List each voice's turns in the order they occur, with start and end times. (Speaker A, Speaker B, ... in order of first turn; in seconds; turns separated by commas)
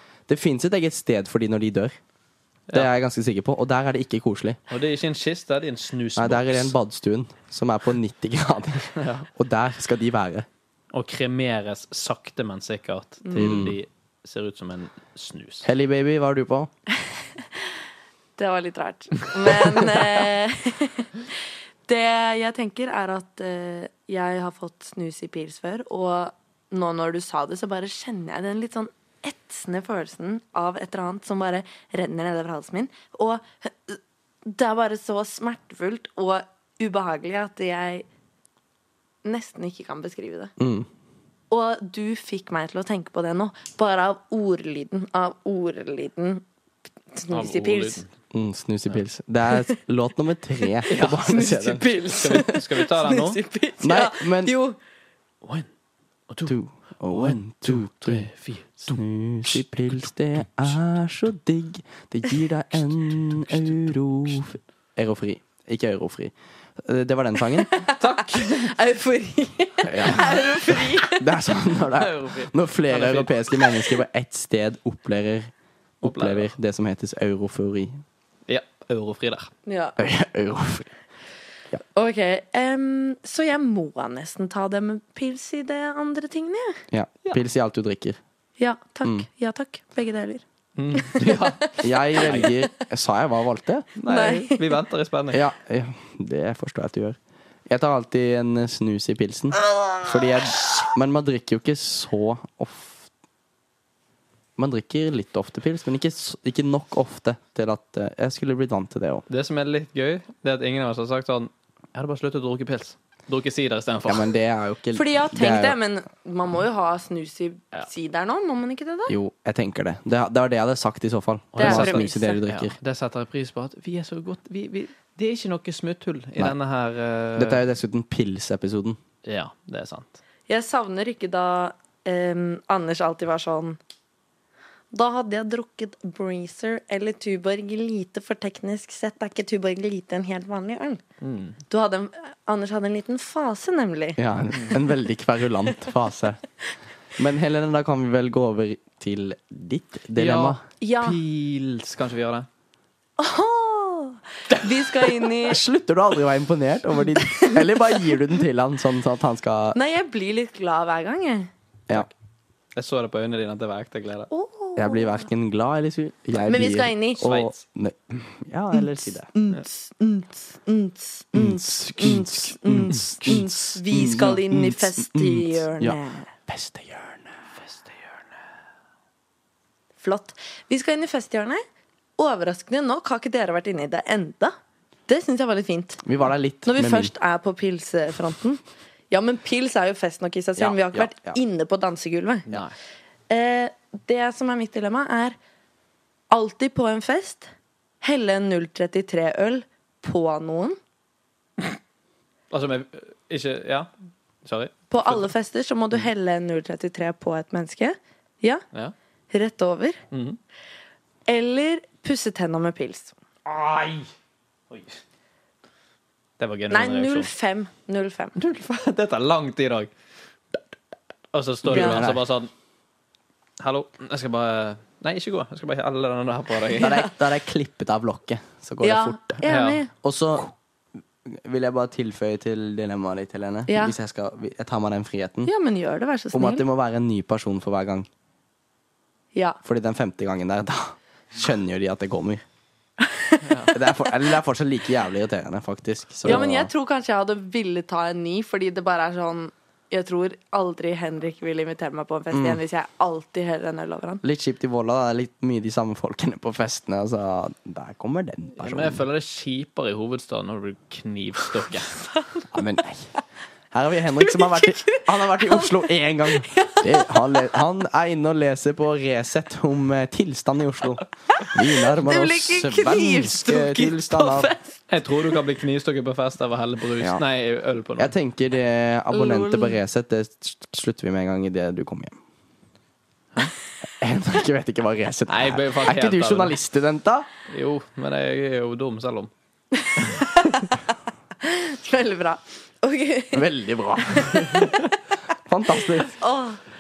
Speaker A: 0.3-1.9, Speaker A: 2.7-4.6, Speaker B: 4.7-6.8, Speaker A: 6.2-10.5, Speaker B: 9.0-9.3, Speaker B: 10.9-15.7, Speaker A: 13.3-13.8, Speaker A: 15.6-16.7, Speaker C: 18.4-21.3, Speaker C: 21.9-38.1, Speaker C: 39.2-40.5, Speaker A: 40.6-40.9, Speaker C: 41.5-46.4, Speaker C: 47.1-48.0, Speaker B: 47.3-48.1, Speaker A: 48.3-52.0, Speaker B: 50.9-51.5, Speaker C: 51.2-54.8, Speaker B: 52.1-53.4, Speaker A: 53.8-54.5, Speaker B: 55.4-55.7, Speaker B: 56.3-56.5, Speaker A: 56.5-58.3, Speaker B: 57.1-59.6, Speaker A: 58.9-67.7, Speaker B: 63.4-64.4, Speaker C: 67.7-71.4, Speaker B: 68.0-68.7, Speaker A: 69.8-77.9, Speaker B: 71.9-73.7, Speaker B: 76.0-76.5, Speaker B: 78.5-79.5, Speaker C: 79.7-80.0, Speaker A: 80.0-80.9, Speaker C: 82.0-86.8, Speaker A: 86.9-88.2, Speaker C: 88.6-90.4, Speaker B: 90.8-92.5, Speaker C: 91.0-92.5, Speaker A: 91.8-93.9, Speaker B: 94.0-95.5, Speaker C: 94.1-94.8, Speaker A: 95.3-103.1, Speaker A: 104.6-109.2, Speaker B: 109.3-114.3, Speaker A: 114.1-115.8, Speaker C: 114.9-119.2, Speaker A: 119.1-122.8, Speaker B: 121.5-127.6, Speaker C: 121.6-122.4, Speaker A: 127.4-129.0, Speaker B: 129.2-130.2, Speaker C: 130.5-133.8, Speaker C: 134.9-141.0, Speaker B: 141.2-141.6, Speaker C: 141.7-144.7, Speaker A: 144.2-146.4, Speaker A: 147.2-150.6, Speaker B: 150.2-152.5, Speaker C: 150.8-151.2, Speaker C: 153.2-155.6, Speaker A: 155.4-159.8, Speaker C: 157.2-158.1, Speaker C: 159.7-161.5, Speaker B: 162.8-164.3, Speaker C: 164.3-165.2, Speaker A: 164.8-169.3, Speaker C: 166.4-167.2, Speaker B: 167.2-167.6, Speaker C: 169.3-176.3, Speaker A: 171.3-177.3, Speaker B: 177.6-178.1, Speaker C: 180.0-181.6, Speaker C: 182.2-184.6, Speaker C: 185.1-186.0, Speaker A: 186.0-187.1, Speaker C: 186.7-192.5, Speaker A: 190.6-191.4, Speaker C: 193.3-195.4, Speaker C: 196.3-197.5, Speaker C: 198.0-200.8, Speaker B: 202.5-203.9, Speaker B: 204.4-205.3, Speaker C: 204.9-208.6, Speaker C: 209.3-210.0, Speaker B: 210.1-210.4, Speaker C: 211.3-213.1, Speaker B: 213.4-214.1, Speaker B: 214.7-215.0, Speaker B: 216.4-217.3, Speaker C: 216.7-218.4, Speaker B: 218.4-219.9, Speaker B: 221.3-222.5, Speaker A: 221.7-222.2, Speaker C: 221.7-222.0, Speaker B: 223.6-227.1, Speaker A: 226.8-229.4, Speaker C: 228.8-229.9, Speaker B: 229.5-229.8, Speaker A: 230.0-230.5, Speaker A: 231.3-235.5, Speaker C: 233.7-233.9, Speaker C: 235.4-236.7, Speaker A: 236.3-238.1, Speaker C: 239.3-239.6, Speaker A: 239.6-242.4, Speaker C: 243.0-243.8, Speaker B: 243.4-243.7, Speaker A: 243.7-246.7, Speaker C: 246.2-254.2, Speaker A: 252.3-252.6, Speaker A: 254.2-259.0, Speaker B: 258.6-261.9, Speaker C: 262.2-262.4, Speaker A: 262.5-263.1, Speaker A: 263.7-274.5, Speaker C: 264.2-267.4, Speaker C: 271.4-274.8, Speaker B: 274.9-278.1, Speaker A: 278.0-282.2, Speaker C: 279.1-279.8, Speaker A: 284.0-287.3, Speaker B: 285.3-286.6, Speaker B: 287.5-289.3, Speaker C: 289.8-290.8, Speaker C: 291.4-294.9, Speaker A: 293.3-294.7, Speaker A: 295.4-296.2, Speaker C: 295.9-296.6